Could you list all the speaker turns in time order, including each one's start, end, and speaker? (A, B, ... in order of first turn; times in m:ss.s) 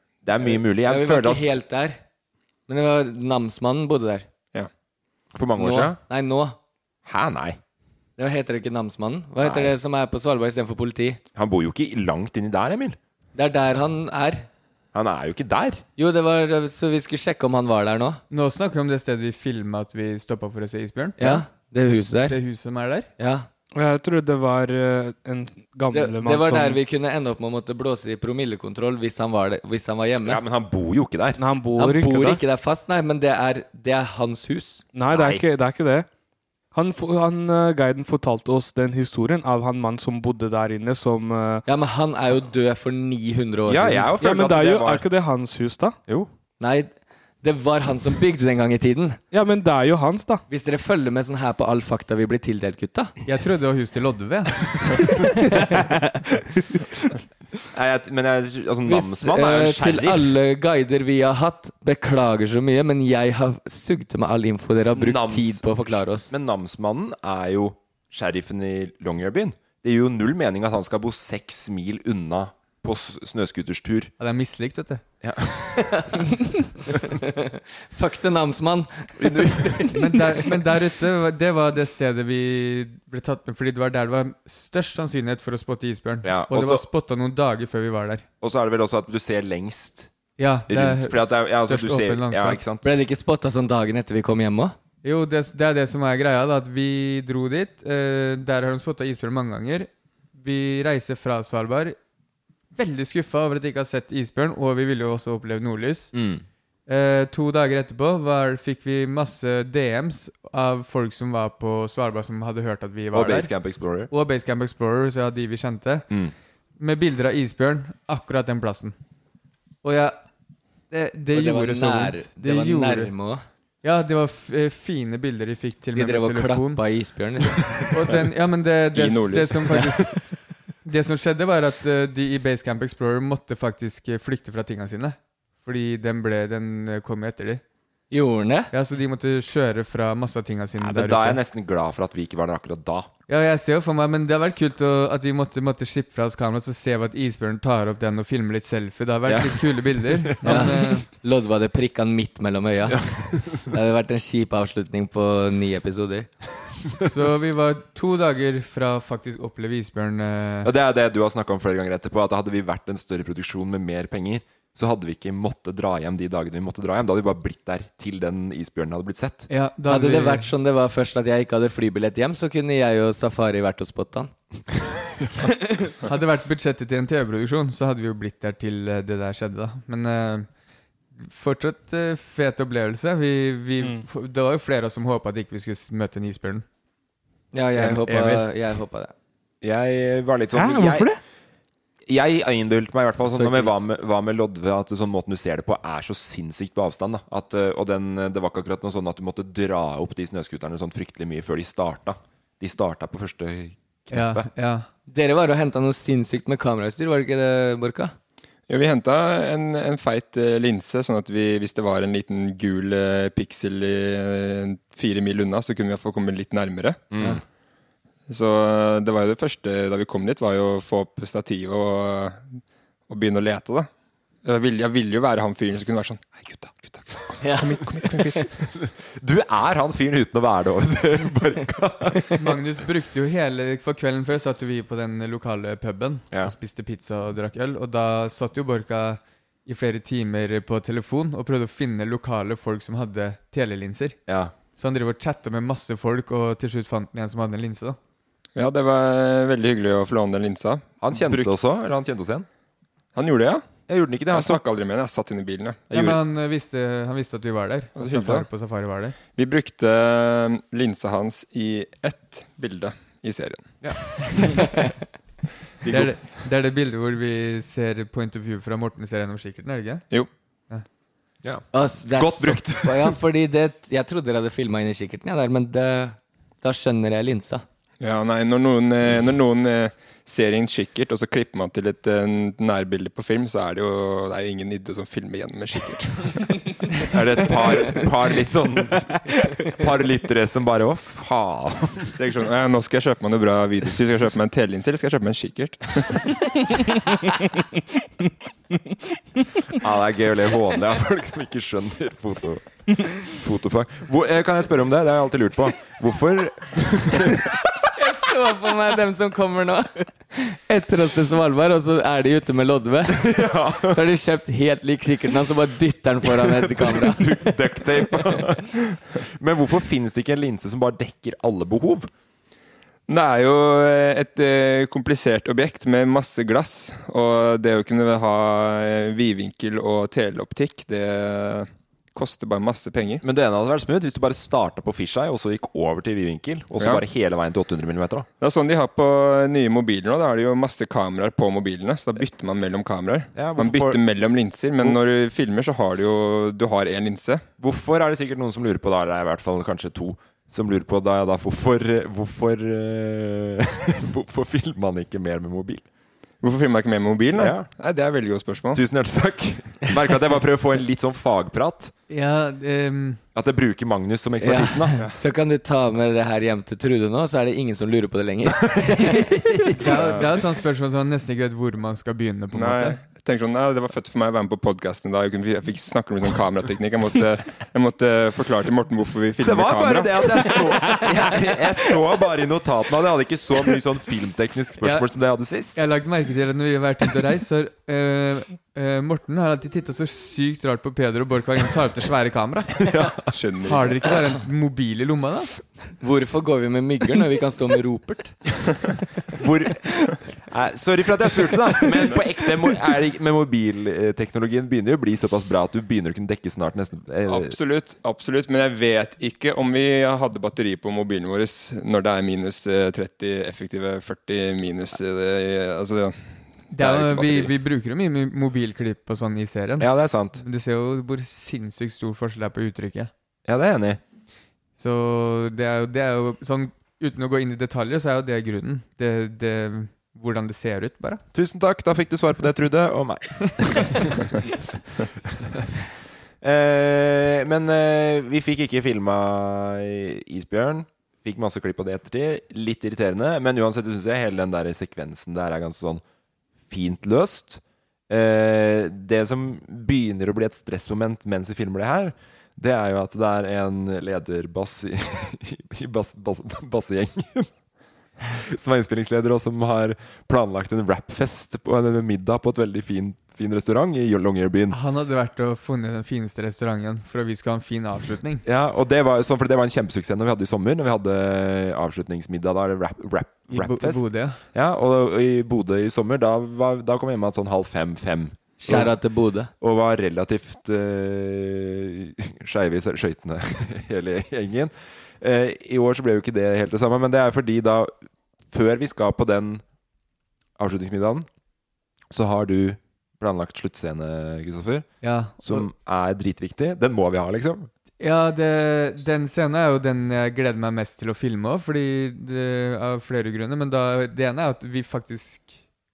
0:00.2-0:01.6 A
0:00.4-0:02.0 B
0:02.7-0:04.3 B
0:05.3-0:06.0 A
0:05.6-0:06.6 B
0:07.0-0:07.6 A
0:08.2-0:11.2 B
0:09.4-0:09.7 A
0:11.3-0:13.0 A
0:13.3-0:14.5 B
0:14.9-0:15.8 A
0:16.0-0:18.2 B
0:18.3-0:21.4 C
0:21.2-0:22.4 B
0:22.2-0:23.1 C
0:23.2-0:23.5 B
0:23.7-0:26.8 D
0:25.9-0:30.4 B
0:30.2-0:31.4 A
0:31.4-0:32.4 D
0:31.8-0:34.8 B
0:34.9-0:36.0 D
0:35.1-0:35.4 A
0:36.7-0:41.6 D
0:41.6-0:44.1 B
0:43.7-0:45.0 A
0:44.2-0:46.0 D
0:46.6-0:49.2 B
0:49.3-0:50.4 D
0:50.5-0:53.1 B
0:53.2-0:55.2 C
0:55.5-0:55.8 B
0:55.7-0:56.4 D
0:57.7-1:00.4 A
0:58.8-1:06.3 B
1:04.9-1:14.1 A
1:14.2-1:15.0 C
1:15.2-1:16.0 A
1:15.8-1:20.0 B
1:19.2-1:19.8 A
1:19.9-1:28.2 C
1:26.2-1:26.8 A
1:28.4-1:30.1 A
1:30.4-1:32.6 C
1:30.7-1:32.9 A
1:32.8-1:34.8 B
1:35.0-1:42.0 C
1:42.7-1:46.1 C
1:46.1-1:46.4 A
1:46.9-1:53.5 C
1:53.1-1:54.1 A
1:54.1-1:56.1 C
1:56.8-1:59.0 C
1:59.8-2:00.2 C
2:00.9-2:03.1 C
2:01.3-2:03.4 B
2:03.8-2:06.8 C
2:05.9-2:07.9 B
2:07.9-2:10.2 C
2:08.9-2:09.7 E
2:10.8-2:17.6 C
2:18.1-2:18.7 B
2:18.7-2:21.4 C
2:20.8-2:23.1 A
2:23.3-2:31.1 C
2:29.3-2:30.9 A
2:30.4-2:33.0 B
2:32.9-2:33.7 A
2:33.6-2:36.3 B
2:37.0-2:40.7 C
2:40.6-2:49.5 A
2:49.5-2:50.5 C
2:49.9-2:54.3 B
2:56.0-3:00.5 C
3:01.2-3:06.6 C
3:03.8-3:04.0 D
3:07.5-3:09.1 B
3:07.8-3:08.4 C
3:09.6-3:11.1 A
3:10.5-3:11.2 D
3:12.1-3:24.5 A
3:13.2-3:13.8 B
3:24.1-3:24.9 C
3:25.1-3:28.1 B
3:28.7-3:37.0 E
3:37.1-3:37.4 A
3:38.3-3:43.9 E
3:44.4-3:48.5 E
3:47.4-3:48.4 B
3:48.7-3:52.4 A
3:52.4-4:04.2 C
4:04.3-4:04.5 A
4:04.8-4:08.0 C
4:08.6-4:11.6 E
4:11.0-4:12.4 A
4:13.1-4:13.7 E
4:13.9-4:14.6 A
4:14.3-4:16.2 E
4:15.9-4:19.2 C
4:18.0-4:18.5 E
4:19.3-4:23.8 E
4:24.6-4:24.9 B
4:25.8-4:26.1 A
4:25.9-4:30.0 C
4:31.4-4:33.2 A
4:31.7-4:37.6 B
4:38.0-4:46.6 E
4:47.1-4:52.1 A
4:52.2-4:56.3 E
4:59.8-5:07.5 A
5:07.9-5:17.6 B
5:13.2-5:14.0 A
5:16.2-5:22.1 A
5:23.1-5:33.2 E
5:33.2-5:38.3 A
5:38.4-5:47.4 E
5:43.3-5:44.0 A
5:47.6-5:55.8 A
5:56.4-5:58.8 E
5:57.4-5:57.7 A
5:58.7-6:01.9 A
6:02.1-6:03.2 C
6:03.3-6:05.1 A
6:04.4-6:09.3 B
6:08.6-6:09.9 A
6:09.8-6:13.0 C
6:09.8-6:10.3 E
6:12.5-6:20.5 E
6:19.4-6:25.8 A
6:24.8-6:25.1 C
6:25.7-6:32.9 C
6:32.8-6:33.3 A
6:33.3-6:34.0 E
6:33.6-6:35.5 C
6:36.0-6:38.4 B
6:39.4-6:47.6 A
6:47.3-6:56.2 E
6:56.7-6:57.5 E
6:56.7-7:03.1 C
6:59.8-7:00.4 A
7:03.4-7:04.0 A
7:04.8-7:11.2 C
7:11.3-7:15.6 A
7:16.4-7:26.0 A
7:26.7-7:37.5 A
7:38.3-7:44.8 A
7:44.7-7:48.4 C
7:48.4-7:58.9 A
7:53.5-7:54.4 C
7:58.6-7:59.5 B
7:59.6-8:07.9 A
8:08.5-8:09.6 A
8:10.6-8:11.2 A
8:12.1-8:14.9 A
8:15.0-8:15.6 C
8:15.4-8:17.7 A
8:18.0-8:25.5 C